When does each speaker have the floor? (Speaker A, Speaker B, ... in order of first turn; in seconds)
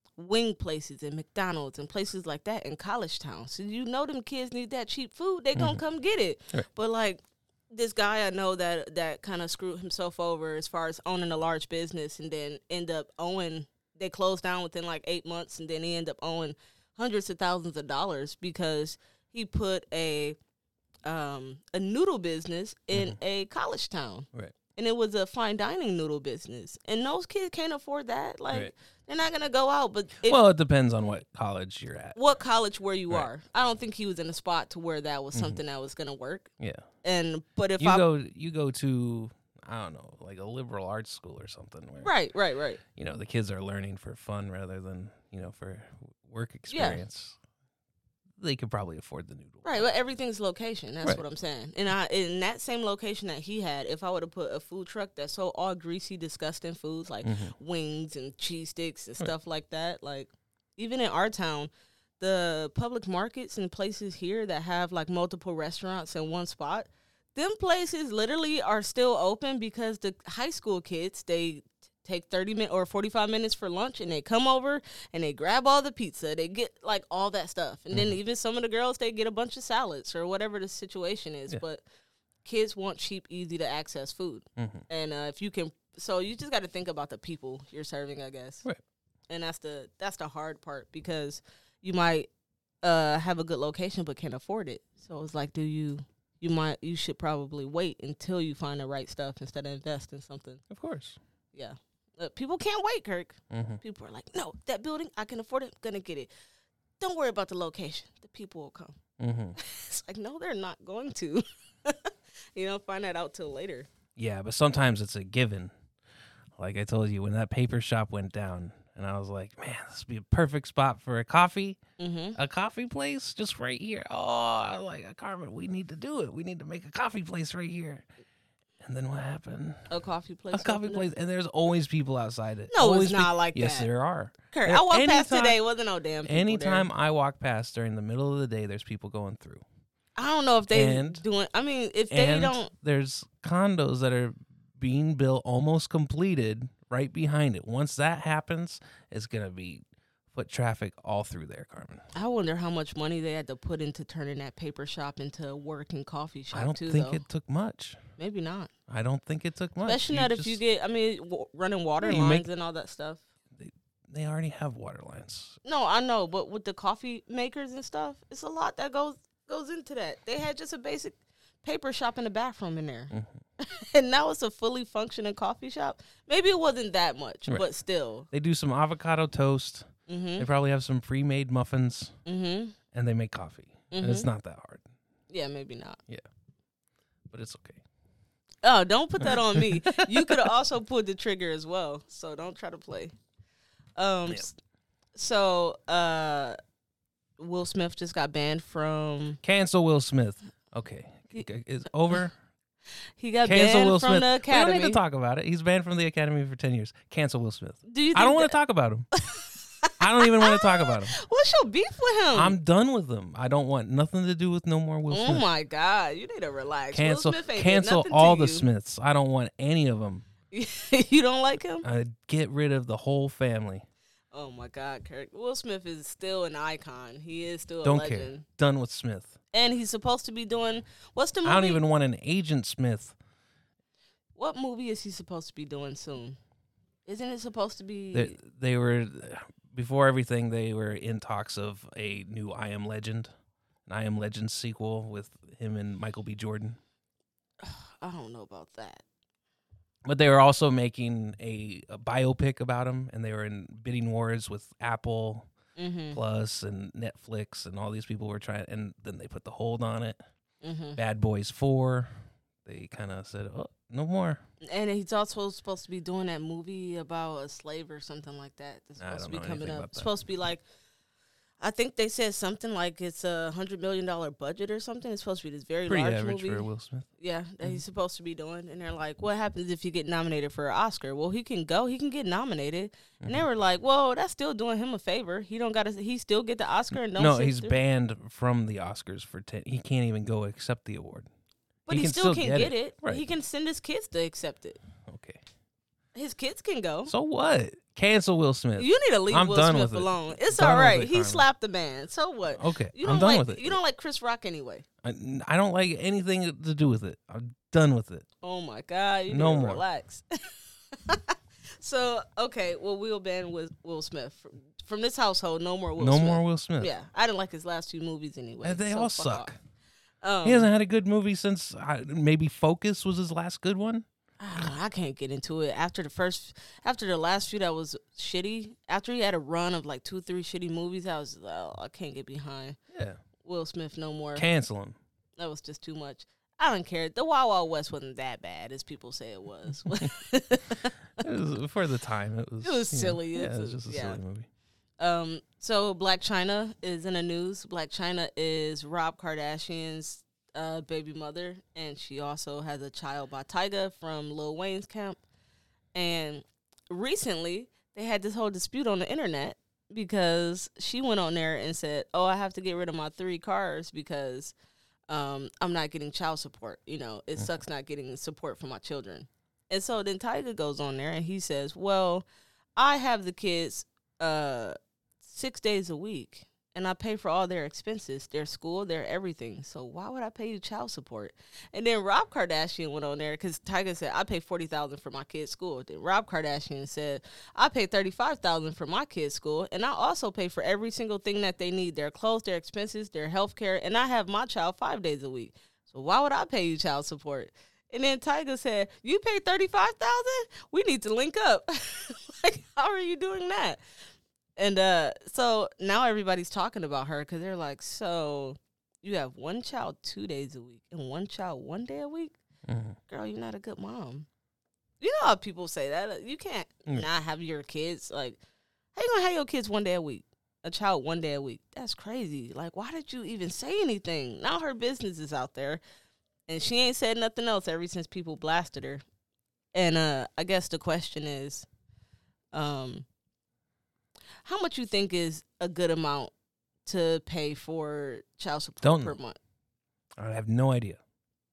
Speaker A: 0.2-20.4, 21.1-30.4, 32.1-36.5, 37.0-38.0, 42.0-42.8, 46.7-47.0, 49.6-81.8, 82.4-88.7, 89.3-92.3, 92.8-100.6, 101.5-106.3, 107.0-109.0, 109.6-113.9, 122.0-122.4, 129.9-131.1, 132.7-133.9, 134.5-136.9, 140.2-142.7, 152.1-157.2, 158.2-158.7, 159.8-163.2, 165.7-178.3, 180.1-180.5, 182.2-182.8, 183.9-184.3, 185.3-186.0, 188.6-193.1, 194.0-194.6, 195.2-196.6, 197.4-199.4, 203.2-205.0, 207.9-208.6, 209.2-212.6, 215.1-218.7, 220.5-221.8, 224.3-228.4, 229.5-231.8, 234.4-236.4, 237.1-238.4, 247.6-249.0, 255.8-256.2, 260.6-261.0, 264.6-270.6, 271.6-276.7, 277.2-287.8, 291.9-294.8, 296.1-297.1, 298.8-304.9, 308.4-319.5, 320.2-320.7, 324.4-332.8, 333.4-334.4, 335.4-340.9, 342.6-344.2, 345.0-355.2, 355.9-364.6, 365.1-372.2, 372.8-403.8, 404.6-412.4, 413.1-414.3, 415.0-418.4, 418.9-425.8, 426.5-429.0, 429.7-431.7, 432.5-433.1, 434.4-436.3, 436.9-439.4
Speaker B: 5.5-5.8, 30.3-32.2, 36.6-36.9, 37.8-42.1, 43.0-47.4, 48.4-49.9, 57.2-57.5, 77.9-78.2, 84.6-84.9, 100.7-101.2, 103.5-103.8, 109.2-109.6, 114.2-115.7, 116.6-121.8, 122.4-128.1, 128.8-129.9, 130.5-135.6, 136.3-139.7, 140.7-141.2, 142.1-152.1, 156.5-158.0, 158.9-160.6, 162.0-162.5, 163.6-165.6, 173.1-173.4, 178.3-182.2, 182.9-184.9, 187.3-187.8, 189.2-190.5, 199.4-202.3, 203.4-209.1, 210.0-211.2, 212.3-215.4, 216.9-220.2, 221.8-223.9, 227.8-229.3, 231.4-233.2, 238.1-243.3, 243.9-246.8, 250.1-255.5, 256.1-260.2, 261.0-264.4, 269.0-270.1, 275.9-277.1, 287.1-291.3, 291.9-293.2, 295.1-295.4, 297.1-301.4, 302.6-303.8, 305.0-308.3, 309.3-309.8, 316.0-316.9, 318.6-319.6, 320.4-324.7, 332.9-333.2, 334.4-335.0, 341.2-344.5, 412.7-413.0, 438.8-439.2, 440.2-441.0